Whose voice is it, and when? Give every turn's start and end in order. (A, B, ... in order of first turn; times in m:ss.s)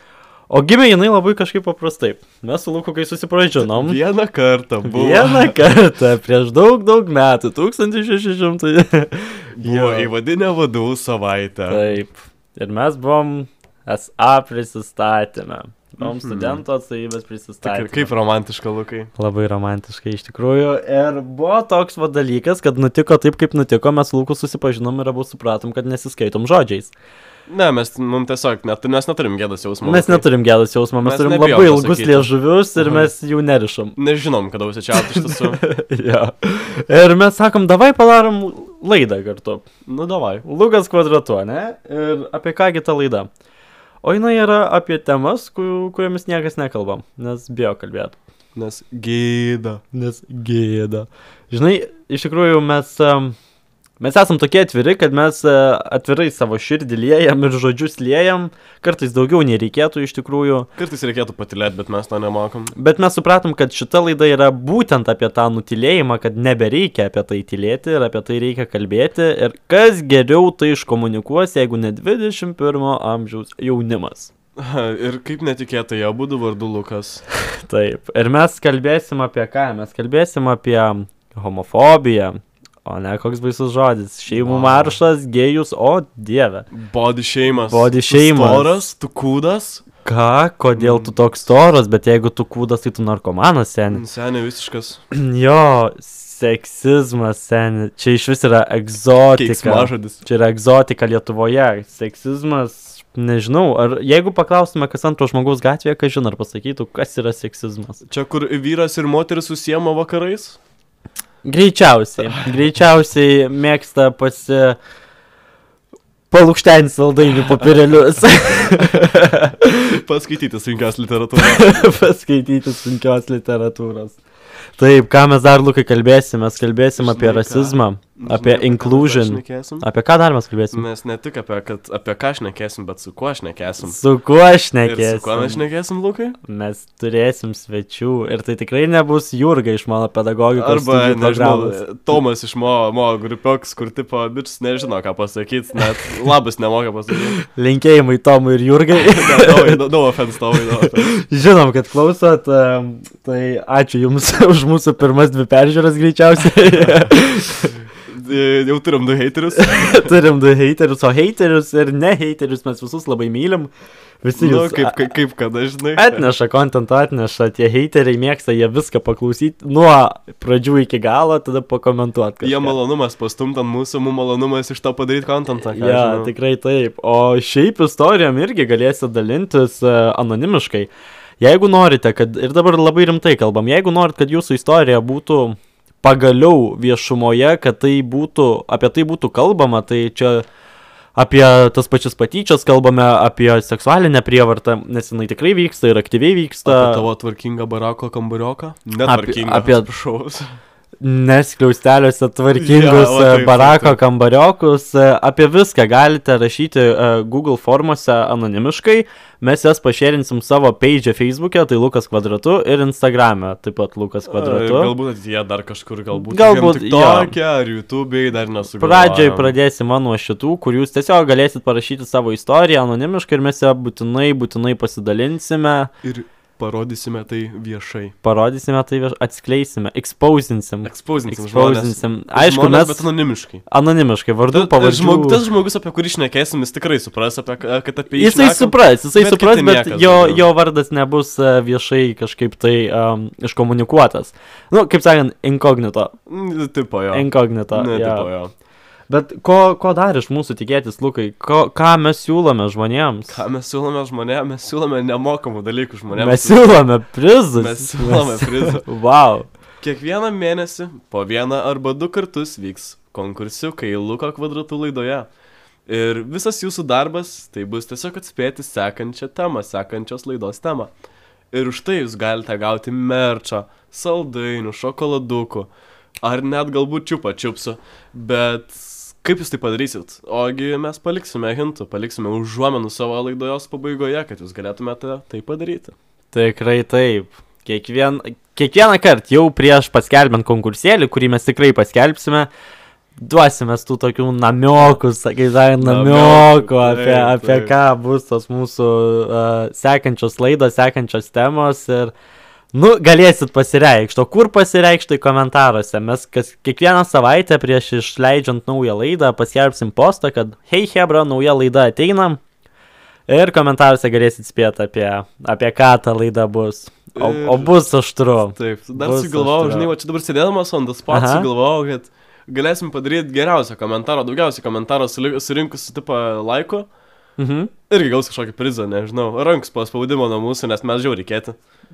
0:00.5-0:04.0 A
0:03.6-0:05.7 B
0:04.8-0:10.1 A
0:09.6-0:11.9 B
0:11.7-0:18.1 A
0:16.0-0:16.6 B
0:17.6-0:19.1 B
0:19.2-0:26.9 A
0:27.5-0:30.3 B
0:29.8-0:34.0 A
0:31.0-0:33.1 B
0:34.0-0:35.6 B
0:35.1-0:39.6 A
0:39.9-0:40.4 B
0:40.4-0:43.3 A
0:44.0-0:48.2 A
0:48.6-0:49.8 B
0:49.9-0:53.4 A
0:54.0-1:00.7 A
1:00.8-1:02.7 B
1:02.8-1:14.3 A
1:14.6-1:17.2 B
1:17.6-1:26.7 A
1:24.3-1:25.0 B
1:26.7-1:29.8 B
1:27.5-1:28.9 A
1:30.0-1:34.0 A
1:30.8-1:31.2 B
1:33.9-1:35.0 B
1:35.1-1:48.0 A
1:39.3-1:40.2 B
1:48.1-1:50.6 B
1:51.4-1:54.8 A
1:56.3-1:59.8 A
1:58.7-1:59.1 B
1:59.8-2:01.8 B
2:01.4-2:04.2 A
2:04.8-2:10.9 A
2:07.0-2:09.9 B
2:10.7-2:14.0 B
2:13.8-2:15.6 A
2:14.8-2:16.4 B
2:16.4-2:21.8 A
2:20.5-2:27.4 B
2:27.6-2:29.8 A
2:28.9-2:31.1 B
2:30.8-2:37.7 A
2:36.8-2:37.1 B
2:38.0-2:40.2 B
2:39.6-2:43.7 A
2:44.2-2:45.0 A
2:44.4-2:46.3 B
2:46.0-2:52.8 A
2:52.4-2:56.3 B
2:55.6-3:10.5 A
3:11.2-3:17.0 A
3:16.7-3:20.5 B
3:19.0-3:19.9 A
3:21.0-3:35.0 A
3:22.6-3:24.0 B
3:34.3-3:39.6 B
3:36.2-3:37.4 A
3:38.8-3:45.9 A
3:46.0-3:48.1 B
3:48.2-3:53.1 A
3:50.8-3:53.6 B
3:53.7-3:55.4 A
3:54.5-4:00.4 B
3:58.1-4:06.1 A
4:06.3-4:08.5 B
4:07.1-4:08.3 A
4:09.1-4:13.4 A
4:13.3-4:16.9 B
4:16.1-4:19.5 A
4:17.6-4:18.8 B
4:19.8-4:25.3 B
4:25.9-4:30.9 B
4:31.5-4:35.7 B
4:36.2-4:45.9 B
4:46.3-4:52.5 A
4:53.2-5:02.1 A
4:55.8-4:57.8 B
5:02.7-5:12.4 A
5:13.3-5:19.9 A
5:17.2-5:17.8 B
5:18.5-5:26.9 B
5:21.1-5:21.5 A
5:27.4-5:27.7 A
5:27.9-5:31.6 B